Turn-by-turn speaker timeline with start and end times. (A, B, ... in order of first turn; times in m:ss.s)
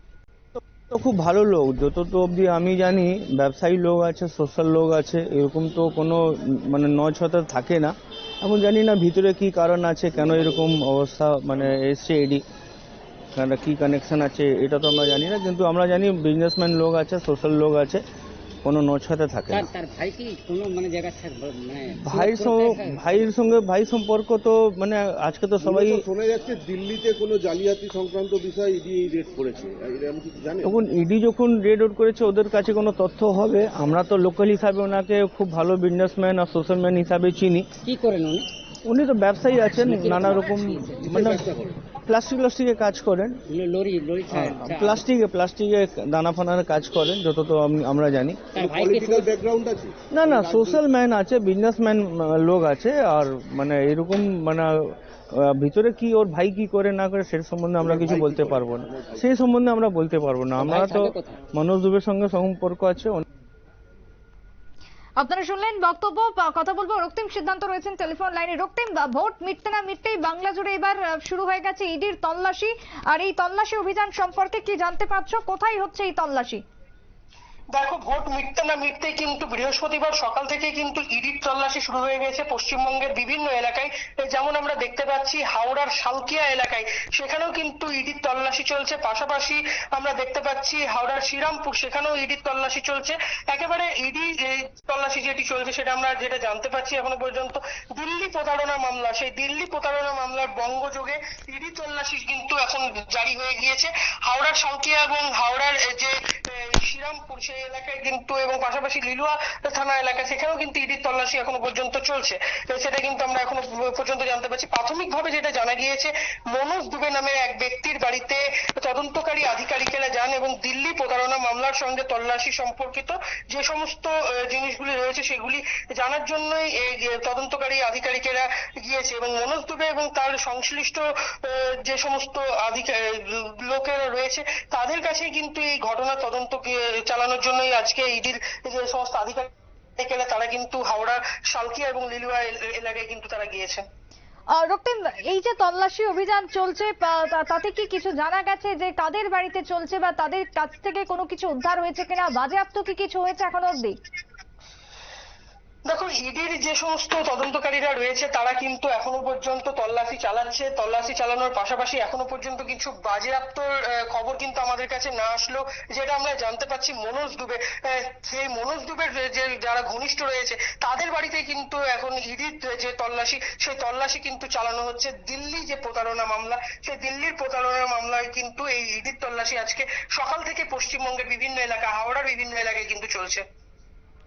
0:00.5-0:12.4 A
0:13.3-0:18.0 A
0:18.6-0:19.7 A
0:19.5-0:23.3 B
0:22.0-0:26.0 A
0:25.6-0:30.8 C
0:30.6-0:37.7 A
0:37.8-0:38.5 B
0:38.8-0:41.4 A
0:39.7-0:41.4 B
0:41.0-0:41.8 C
0:42.0-0:43.4 A
0:43.5-0:45.0 B
0:44.3-0:48.4 A
0:48.5-0:49.3 B
0:48.6-0:50.8 C
0:50.1-1:03.2 A
0:57.8-0:59.2 C
1:00.6-1:01.4 B
1:05.2-1:16.6 D
1:17.7-2:23.8 E
2:24.6-2:34.0 D
2:35.9-3:03.4 E